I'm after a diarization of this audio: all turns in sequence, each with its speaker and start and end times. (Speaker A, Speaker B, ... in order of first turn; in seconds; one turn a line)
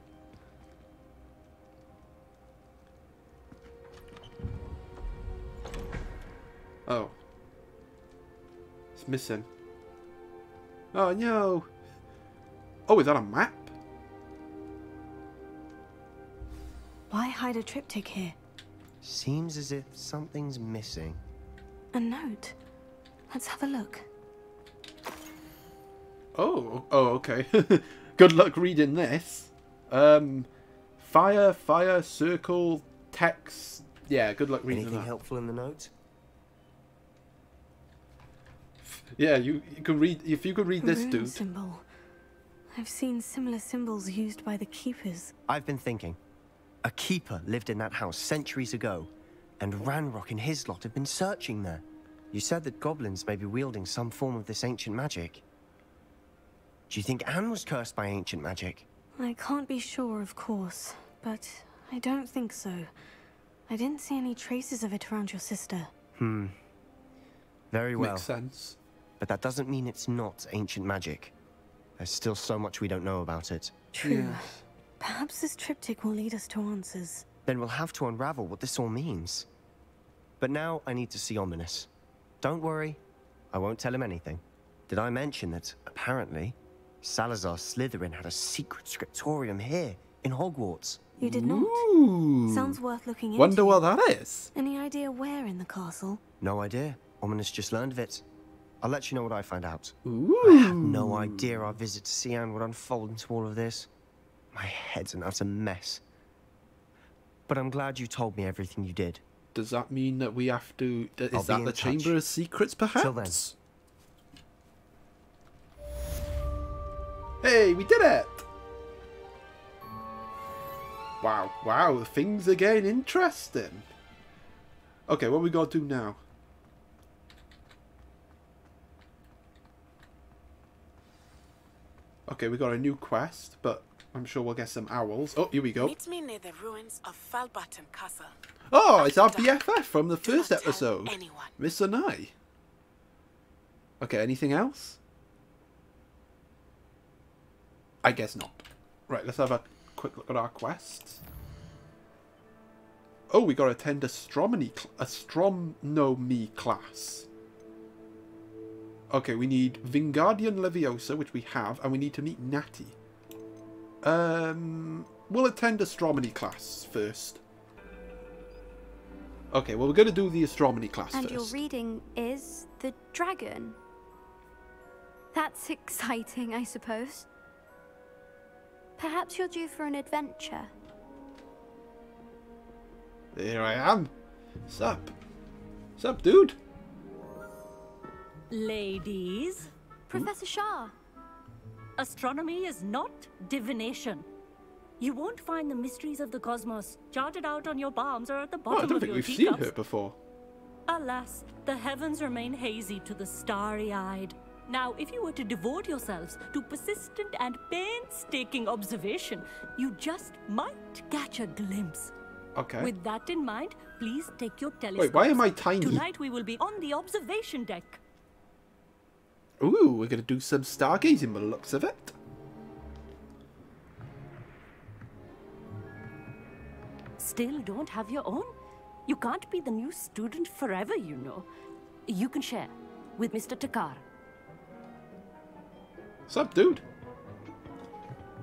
Speaker A: 6.8-7.1
Speaker A: 8.9-9.5
Speaker A: 10.9-11.7
Speaker A: 12.9-13.7
Speaker B: 17.1-18.4
Speaker C: 19.0-21.2
Speaker B: 21.9-22.6
Speaker B: 23.3-24.1
Speaker A: 26.3-30.5
Speaker A: 31.0-35.1
Speaker C: 34.7-35.9
Speaker A: 38.8-41.4
Speaker B: 40.8-41.8
Speaker B: 42.7-45.3
Speaker C: 45.5-46.2
Speaker C: 46.8-55.4
Speaker C: 56.9-58.9
Speaker B: 59.2-62.9
Speaker B: 63.7-65.9
Speaker C: 66.2-66.5
Speaker C: 67.7-68.3
Speaker A: 68.0-68.8
Speaker C: 69.2-71.3
Speaker C: 72.0-73.7
Speaker B: 73.9-74.4
Speaker A: 74.0-74.6
Speaker B: 75.0-77.2
Speaker C: 77.5-79.5
Speaker C: 80.4-81.9
Speaker C: 82.4-83.0
Speaker C: 83.5-91.1
Speaker B: 91.2-91.9
Speaker A: 91.2-92.8
Speaker B: 92.5-93.8
Speaker A: 93.3-94.5
Speaker B: 94.5-96.2
Speaker C: 96.4-98.2
Speaker C: 98.8-103.9
Speaker A: 100.0-101.7
Speaker C: 104.5-106.0
Speaker C: 107.5-109.2
Speaker A: 109.5-113.5
Speaker C: 111.3-112.2
Speaker C: 113.0-113.4
Speaker A: 117.4-118.4
Speaker A: 121.2-123.9
Speaker A: 125.1-126.2
Speaker A: 132.3-135.9
Speaker D: 135.8-138.3
Speaker A: 138.7-142.3
Speaker D: 138.9-139.6
Speaker D: 140.2-141.5
Speaker A: 144.0-145.0
Speaker A: 148.0-151.2
Speaker A: 153.3-157.3
Speaker A: 159.1-162.9
Speaker A: 164.0-167.4
Speaker A: 169.5-171.6
Speaker E: 171.1-173.8
Speaker E: 175.3-177.3
Speaker E: 179.0-180.7
Speaker A: 183.3-184.1
Speaker A: 184.7-185.1
Speaker A: 186.0-186.6
Speaker F: 188.5-189.7
Speaker E: 190.1-190.9
Speaker F: 192.0-194.2
Speaker F: 195.0-199.7
Speaker A: 198.7-200.2
Speaker F: 200.9-212.1
Speaker A: 212.6-212.9
Speaker F: 212.8-218.0
Speaker A: 214.9-216.1
Speaker A: 219.6-222.1
Speaker F: 227.2-228.5
Speaker F: 229.1-231.4
Speaker F: 232.1-234.0
Speaker A: 236.3-236.8